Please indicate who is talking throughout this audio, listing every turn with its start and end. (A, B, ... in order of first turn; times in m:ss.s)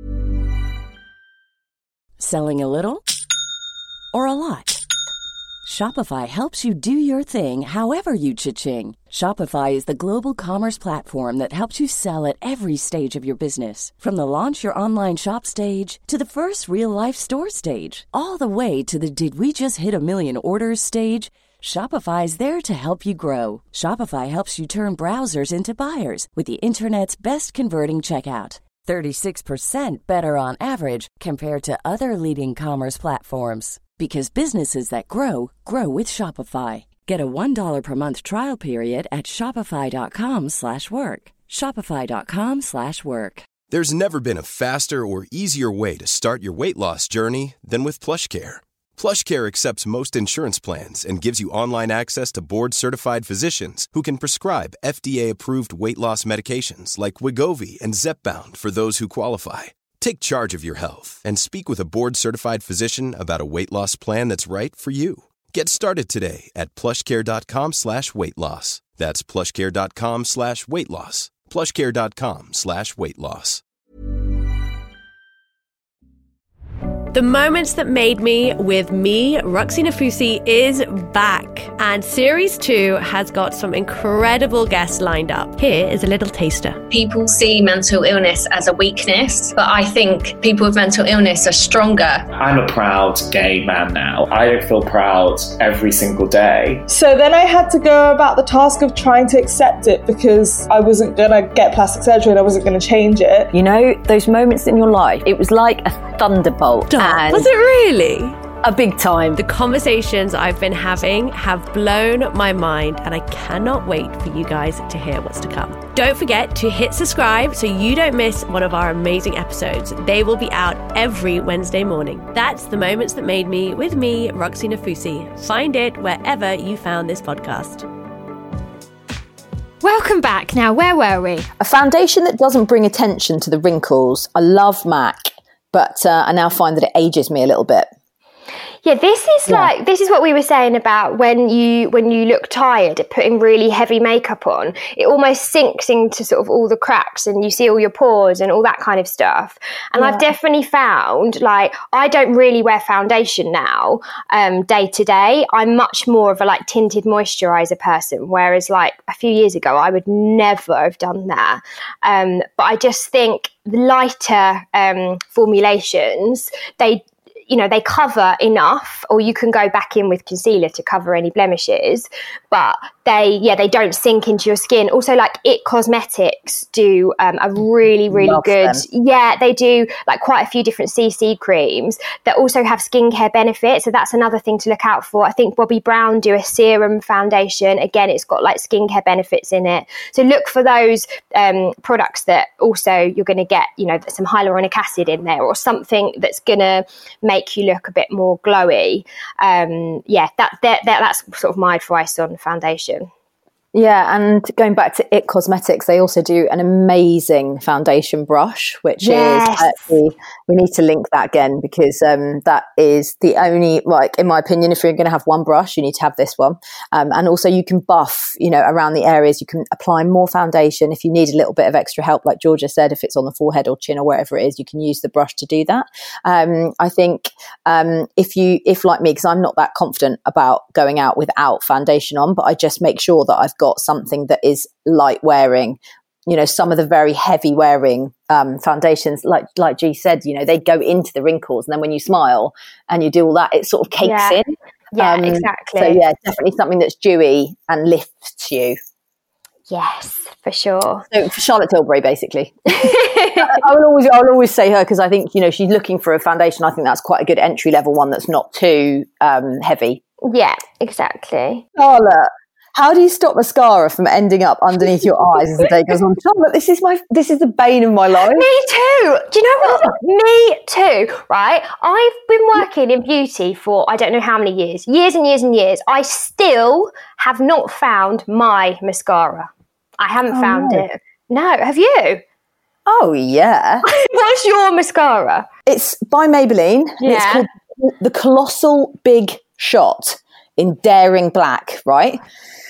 0:02.2-0:03.0 A
0:04.1-0:04.8 A
0:05.6-0:43.5 A
0:43.7-1:13.6 B
1:17.1-1:26.8 C
1:26.9-1:32.3 D
1:32.4-1:36.8 E
1:36.9-1:43.5 F
1:43.5-1:47.5 G
1:46.9-1:48.4 C
1:48.6-1:49.4 G
1:49.4-2:07.9 C
2:09.8-2:11.5 H
2:11.6-2:17.9 G
2:18.8-3:23.1 H
2:30.0-2:30.3 G
2:58.1-2:58.8 G
3:23.7-4:08.8 G
3:29.0-3:29.9 H
4:04.0-4:04.4 H
4:04.9-4:06.0 H
4:09.7-4:11.1 H
4:11.1-4:20.0 G
4:12.7-4:13.6 H
4:20.2-4:21.6 H
4:21.8-4:28.5 G
4:25.0-4:25.7 H
4:28.3-4:42.2 H
4:29.6-4:29.9 G
4:40.3-4:40.8 G
4:42.9-4:43.9 G
4:43.9-4:45.5 H
4:45.7-4:52.2 G
4:47.0-4:47.5 H